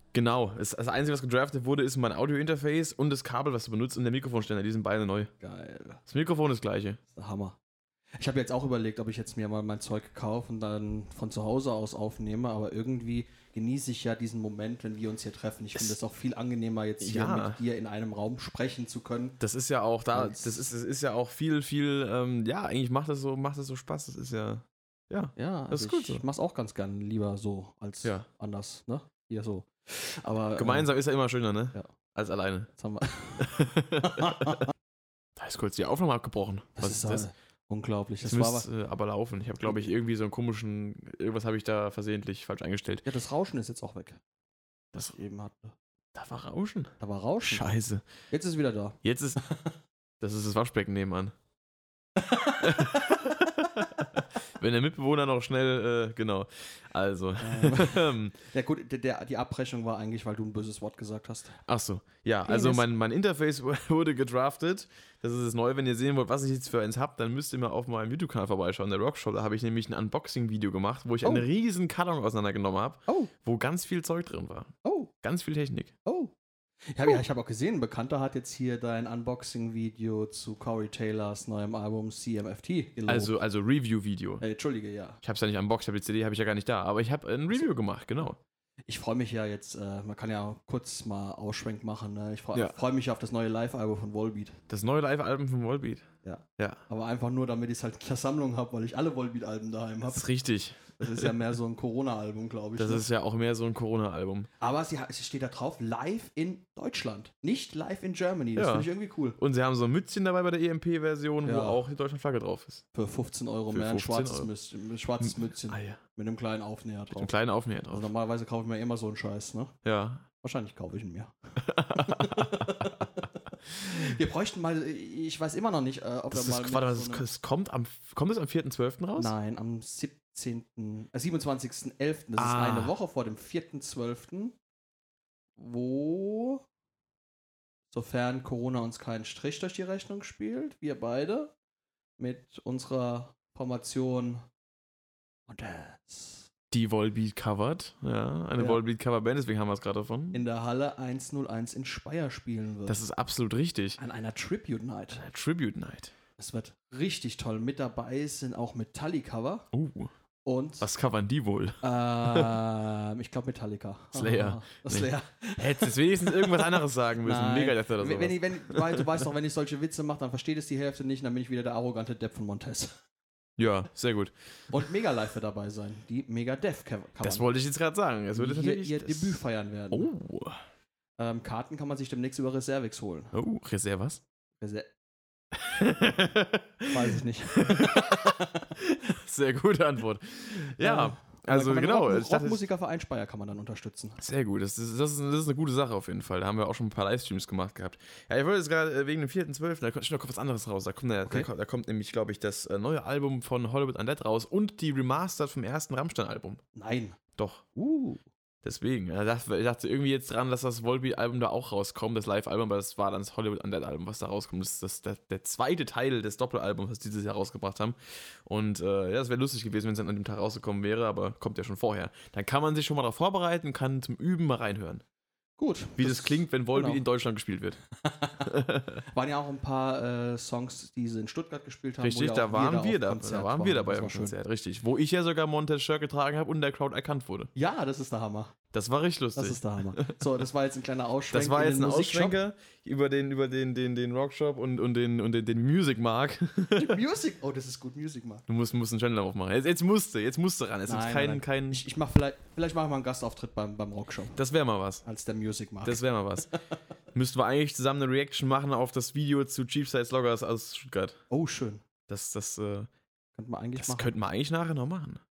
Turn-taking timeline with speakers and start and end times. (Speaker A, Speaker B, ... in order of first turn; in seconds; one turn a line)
Speaker A: 0.1-5.3
Speaker B: 5.4-6.0
Speaker A: 6.0-7.0
Speaker B: 7.1-7.6
Speaker B: 8.2-19.4
Speaker A: 17.0-17.6
Speaker A: 19.4-26.2
Speaker B: 20.1-20.7
Speaker B: 25.4-30.9
Speaker A: 30.6-32.7
Speaker B: 32.8-34.7
Speaker A: 33.4-34.6
Speaker A: 35.4-37.3
Speaker B: 36.8-38.7
Speaker A: 38.2-43.0
Speaker B: 43.0-44.2
Speaker B: 45.1-45.7
Speaker A: 46.1-48.0
Speaker B: 47.0-47.6
Speaker B: 48.3-49.8
Speaker A: 49.0-49.4
Speaker A: 50.2-51.3
Speaker B: 52.2-53.5
Speaker A: 52.6-58.4
Speaker B: 57.4-61.5
Speaker A: 61.7-75.9
Speaker B: 62.5-62.9
Speaker B: 74.8-75.1
Speaker B: 76.0-76.3
Speaker B: 76.9-83.3
Speaker A: 83.1-84.4
Speaker B: 84.4-85.2
Speaker A: 85.2-88.4
Speaker B: 88.9-94.6
Speaker A: 94.7-96.0
Speaker B: 96.2-100.2
Speaker A: 100.1-101.3
Speaker B: 101.0-103.0
Speaker A: 102.8-104.5
Speaker B: 104.6-109.4
Speaker A: 108.5-112.8
Speaker B: 111.4-111.8
Speaker B: 112.9-117.3
Speaker A: 113.7-114.5
Speaker A: 115.2-116.0
Speaker A: 117.1-118.1
Speaker B: 117.9-119.8
Speaker A: 119.8-120.2
Speaker B: 120.4-121.3
Speaker A: 121.6-123.0
Speaker B: 121.9-127.2
Speaker A: 126.3-129.3
Speaker B: 129.2-134.6
Speaker A: 132.3-132.9
Speaker B: 135.6-136.6
Speaker B: 137.9-141.5
Speaker B: 142.2-144.4
Speaker B: 145.5-146.5
Speaker A: 146.7-150.4
Speaker B: 150.3-153.0
Speaker A: 152.9-154.0
Speaker B: 154.0-155.2
Speaker A: 155.1-156.1
Speaker B: 156.4-159.7
Speaker A: 159.7-160.1
Speaker B: 160.4-160.9
Speaker A: 160.8-162.5
Speaker B: 161.8-173.0
Speaker A: 164.1-169.2
Speaker A: 173.6-174.7
Speaker B: 174.7-177.4
Speaker A: 177.2-180.6
Speaker B: 178.3-180.1
Speaker B: 181.2-183.3
Speaker A: 183.3-184.2
Speaker B: 184.6-184.9
Speaker A: 185.5-192.6
Speaker B: 186.9-188.8
Speaker B: 190.8-194.2
Speaker A: 194.2-206.6
Speaker B: 206.7-207.2
Speaker A: 207.4-207.6
Speaker B: 207.8-208.2
Speaker A: 208.6-225.0
Speaker B: 225.6-227.0
Speaker A: 226.0-227.8
Speaker B: 228.0-228.6
Speaker A: 228.4-229.0
Speaker B: 229.1-234.3
Speaker A: 232.0-237.5
Speaker B: 237.5-238.5
Speaker A: 238.7-240.2
Speaker B: 239.3-242.4
Speaker A: 241.3-247.0
Speaker B: 246.7-248.4
Speaker A: 248.5-251.8
Speaker B: 250.9-254.4
Speaker A: 254.3-255.0
Speaker B: 255.0-256.6
Speaker A: 255.8-256.5
Speaker A: 257.1-261.2
Speaker B: 261.3-261.8
Speaker A: 262.1-262.9
Speaker B: 263.4-264.1
Speaker A: 263.8-265.2